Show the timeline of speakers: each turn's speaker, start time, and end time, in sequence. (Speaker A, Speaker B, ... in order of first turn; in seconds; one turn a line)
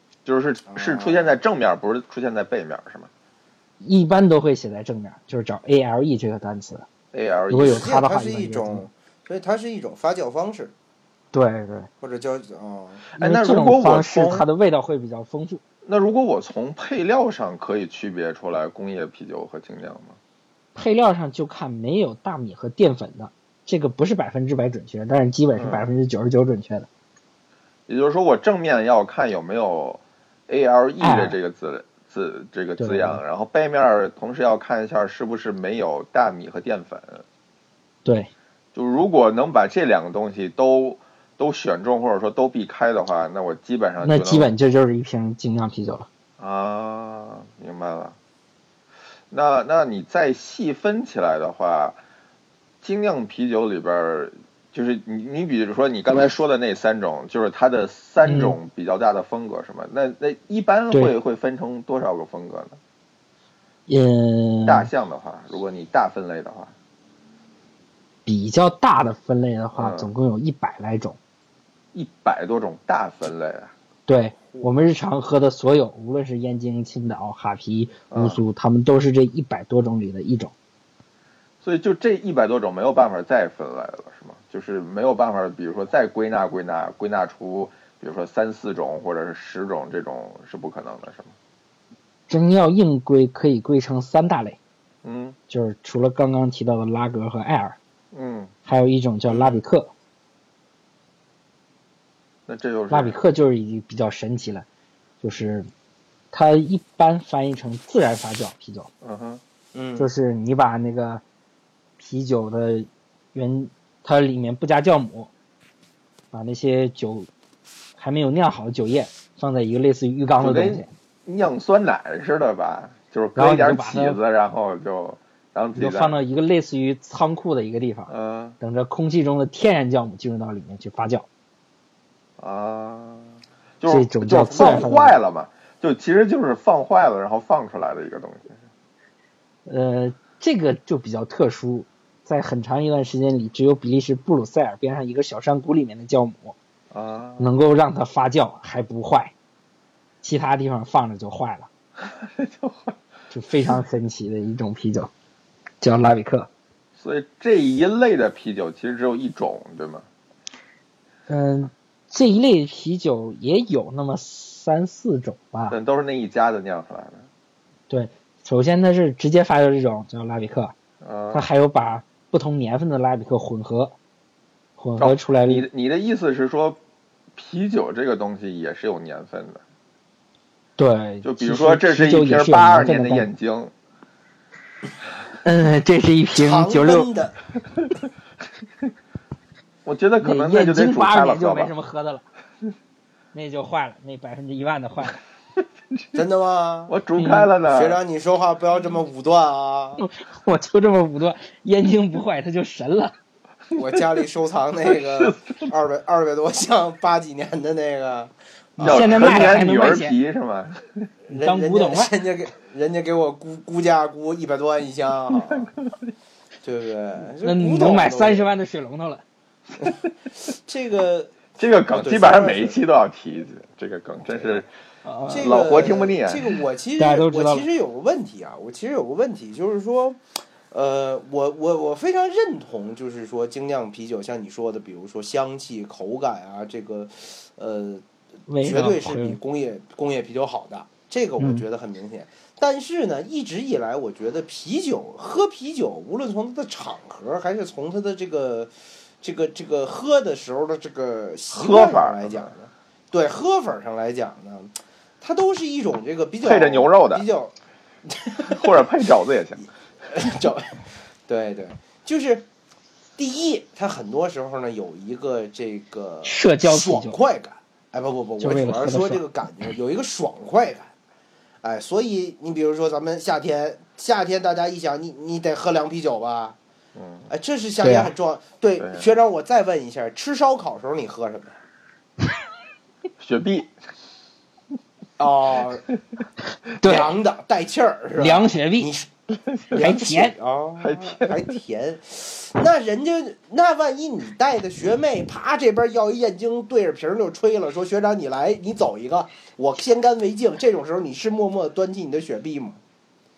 Speaker A: 0.3-3.1
Speaker B: 0.7-1.4
Speaker C: 3.8-6.9
Speaker A: 7.1-7.9
Speaker C: 7.5-8.9
Speaker B: 7.6-10.7
Speaker C: 11.3-11.9
Speaker B: 12.0-13.0
Speaker A: 13.1-14.5
Speaker C: 13.2-15.6
Speaker A: 15.8-20.2
Speaker C: 20.8-26.9
Speaker A: 25.6-25.9
Speaker A: 27.9-37.2
Speaker C: 31.0-31.4
Speaker C: 32.8-33.2
Speaker C: 38.0-38.3
Speaker A: 38.7-44.5
Speaker C: 44.0-46.1
Speaker A: 46.4-48.1
Speaker A: 49.3-52.0
Speaker A: 52.8-62.8
Speaker C: 58.2-58.6
Speaker C: 60.9-61.2
Speaker C: 63.9-64.9
Speaker A: 64.7-66.7
Speaker C: 68.3-71.2
Speaker A: 69.8-70.1
Speaker A: 71.9-73.7
Speaker C: 74.1-80.5
Speaker A: 78.1-78.4
Speaker A: 81.6-91.3
Speaker C: 92.3-94.6
Speaker A: 95.0-95.4
Speaker C: 95.5-97.8
Speaker A: 98.1-98.5
Speaker C: 98.7-99.9
Speaker A: 102.5-103.2
Speaker C: 102.9-104.7
Speaker C: 105.2-105.7
Speaker C: 106.3-108.9
Speaker A: 109.0-109.4
Speaker B: 109.7-110.1
Speaker C: 110.0-111.2
Speaker C: 112.0-115.3
Speaker C: 116.3-117.3
Speaker C: 118.0-120.9
Speaker A: 120.4-126.2
Speaker C: 123.4-124.2
Speaker C: 125.8-131.3
Speaker A: 128.1-128.6
Speaker A: 132.4-138.6
Speaker C: 133.9-135.2
Speaker C: 139.7-146.6
Speaker A: 146.9-147.5
Speaker C: 147.4-149.3
Speaker C: 150.2-151.7
Speaker A: 152.0-153.0
Speaker C: 153.3-155.1
Speaker C: 155.8-156.5
Speaker A: 157.0-160.1
Speaker C: 161.3-165.8
Speaker A: 165.7-167.3
Speaker C: 167.9-170.7
Speaker A: 171.0-171.5
Speaker C: 171.3-173.9
Speaker C: 174.8-175.7
Speaker A: 175.0-176.8
Speaker A: 177.4-179.6
Speaker C: 180.8-183.3
Speaker A: 181.2-183.7
Speaker C: 185.4-187.1
Speaker B: 186.4-187.4
Speaker A: 189.8-191.7
Speaker C: 190.2-192.2
Speaker C: 193.3-195.2
Speaker A: 195.9-196.2
Speaker B: 196.2-196.9
Speaker A: 196.9-198.0
Speaker C: 197.2-197.5
Speaker B: 197.6-200.0
Speaker C: 200.0-203.2
Speaker B: 203.7-209.5
Speaker A: 204.9-205.7
Speaker C: 208.8-210.2
Speaker A: 208.8-211.1
Speaker B: 211.3-215.7
Speaker C: 211.3-212.1
Speaker A: 215.4-215.7
Speaker B: 216.6-218.5
Speaker C: 217.4-219.2
Speaker B: 219.8-222.8
Speaker A: 221.6-224.7
Speaker B: 224.3-224.6
Speaker C: 225.1-225.6
Speaker B: 225.3-238.1
Speaker A: 225.3-226.6
Speaker C: 227.0-227.7
Speaker C: 238.5-239.4
Speaker B: 238.6-257.5
Speaker A: 251.5-252.5
Speaker A: 256.4-257.2
Speaker B: 258.1-258.9
Speaker A: 258.5-259.7
Speaker B: 260.1-262.5
Speaker B: 263.2-270.9
Speaker C: 266.2-267.2
Speaker C: 268.4-269.2
Speaker B: 271.6-276.6
Speaker A: 277.0-277.3
Speaker B: 277.3-281.6
Speaker C: 277.8-278.1
Speaker A: 278.8-279.1
Speaker A: 283.2-283.7
Speaker B: 285.2-285.9
Speaker C: 286.7-287.1
Speaker B: 286.8-289.1
Speaker C: 288.2-288.9
Speaker A: 289.5-289.8
Speaker B: 289.7-302.8
Speaker C: 289.7-290.4
Speaker A: 290.8-291.4